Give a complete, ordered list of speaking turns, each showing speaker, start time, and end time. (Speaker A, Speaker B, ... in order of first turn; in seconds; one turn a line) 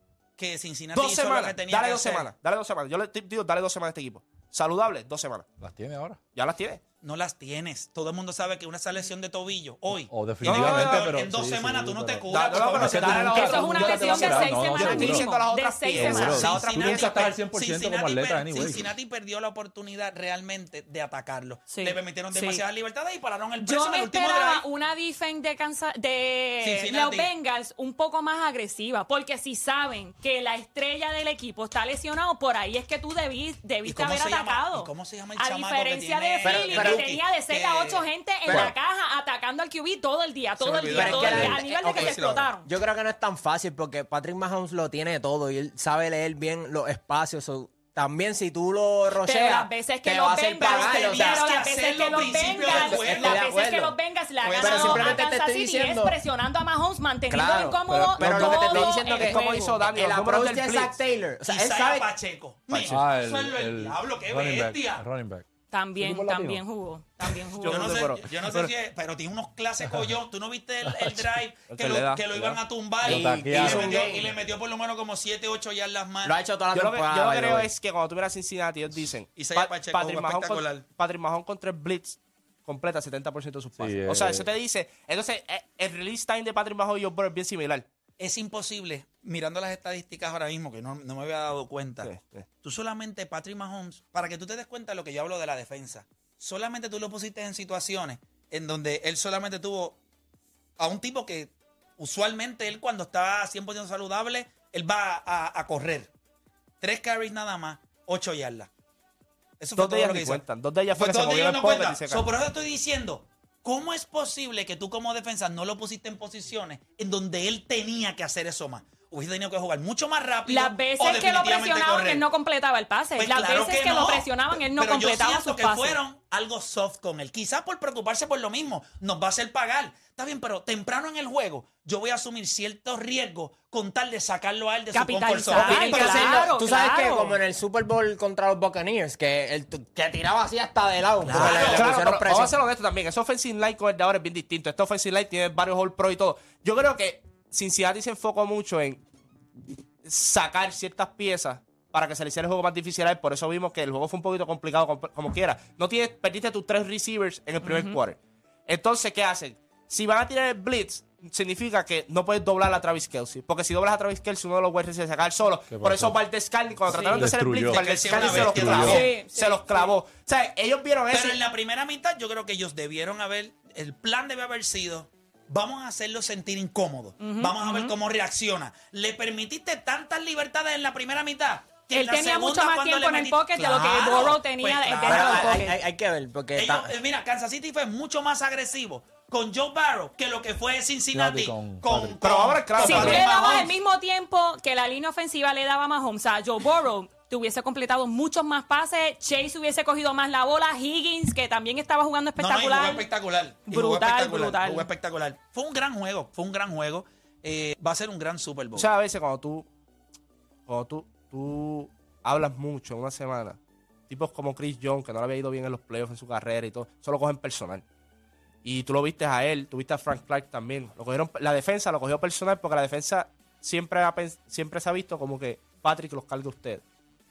Speaker A: 0.4-2.3
Speaker B: 0.9-5.5
Speaker C: 5.6-6.2
Speaker B: 6.3-6.8
Speaker A: 7.0-13.8
Speaker C: 10.1-18.9
Speaker B: 10.4-11.2
Speaker B: 12.3-17.2
Speaker D: 13.3-17.0
Speaker A: 16.2-24.6
Speaker D: 21.7-22.6
Speaker D: 23.6-42.7
Speaker A: 26.6-27.3
Speaker A: 33.9-38.1
Speaker E: 36.4-37.1
Speaker E: 38.5-38.7
Speaker A: 40.6-42.5
Speaker E: 40.9-51.5
Speaker C: 41.3-41.5
Speaker D: 49.2-59.9
Speaker A: 50.6-53.5
Speaker E: 52.4-54.0
Speaker A: 54.4-55.2
Speaker E: 54.6-56.2
Speaker E: 57.3-62.1
Speaker C: 57.9-58.2
Speaker B: 58.2-61.0
Speaker A: 61.5-65.0
Speaker C: 62.9-65.4
Speaker D: 65.7-67.9
Speaker C: 66.0-66.6
Speaker A: 67.6-76.4
Speaker B: 67.6-68.7
Speaker C: 70.9-71.2
Speaker B: 71.7-72.3
Speaker C: 72.3-74.2
Speaker E: 73.0-74.3
Speaker E: 76.2-77.7
Speaker B: 76.7-87.9
Speaker A: 79.4-80.9
Speaker C: 83.8-84.5
Speaker A: 88.2-100.0
Speaker B: 92.0-92.5
Speaker A: 100.8-106.1
Speaker A: 106.8-108.7
Speaker A: 109.6-110.4
Speaker B: 109.8-112.2
Speaker A: 110.9-122.2
Speaker D: 120.5-126.0
Speaker A: 123.2-136.4
Speaker D: 134.9-137.4
Speaker B: 135.6-136.5
Speaker E: 135.6-142.6
Speaker A: 141.2-141.9
Speaker B: 141.4-149.0
Speaker B: 150.0-171.4
Speaker D: 157.6-158.0
Speaker C: 165.7-166.2
Speaker C: 166.8-169.0
Speaker D: 166.9-167.3
Speaker A: 167.7-169.1
Speaker D: 168.8-169.9
Speaker A: 171.1-185.6
Speaker D: 177.2-177.9
Speaker D: 181.9-185.7
Speaker E: 185.0-186.9
Speaker A: 186.5-193.7
Speaker C: 191.1-192.2
Speaker B: 192.2-193.3
Speaker D: 192.8-203.0
Speaker A: 202.4-208.9
Speaker D: 203.7-204.9
Speaker B: 208.7-209.7
Speaker B: 210.7-217.8
Speaker B: 218.6-226.8